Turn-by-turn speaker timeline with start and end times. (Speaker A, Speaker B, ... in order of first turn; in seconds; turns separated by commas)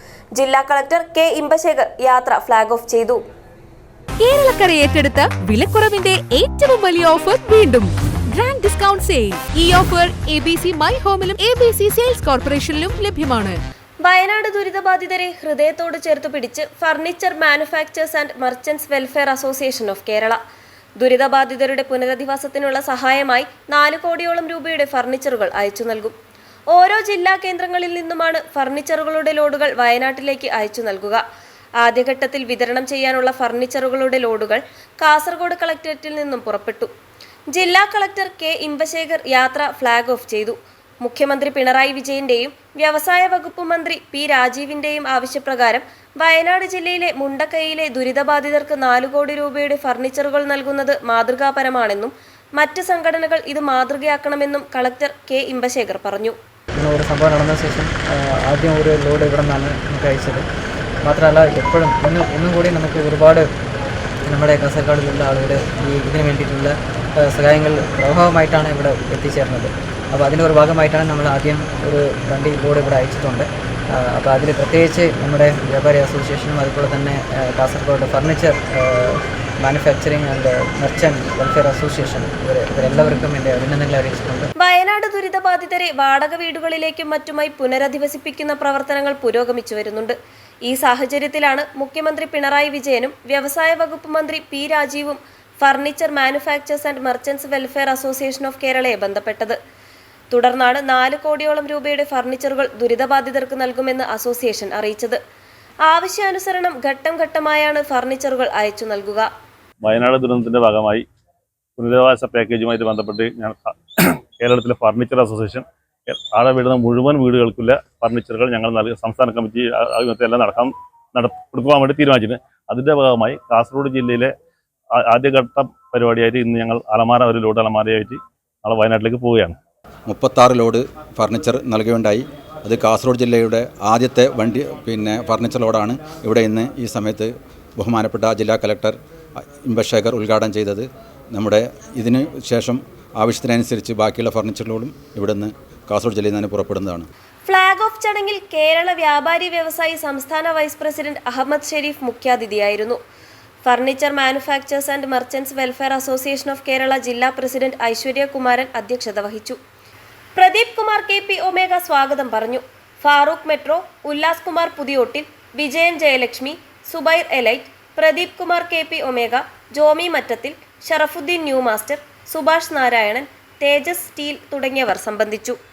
Speaker A: 0.3-3.2, Speaker B: 4.2-13.6, Speaker A: 14.0-20.4, Speaker A: 21.0-26.1, Speaker A: 26.7-31.2, Speaker A: 31.8-36.9, Speaker A: 37.5-56.3, Speaker C: 56.8-60.5, Speaker C: 61.0-63.5, Speaker C: 64.2-84.5, Speaker A: 84.6-99.6, Speaker A: 100.3-105.2, Speaker A: 105.9-109.3, Speaker D: 109.8-111.0, Speaker D: 111.8-124.3, Speaker D: 124.9-129.5, Speaker E: 130.1-139.0, Speaker E: 139.6-147.1, Speaker A: 147.4-153.0, Speaker A: 153.6-159.6, Speaker A: 160.3-175.6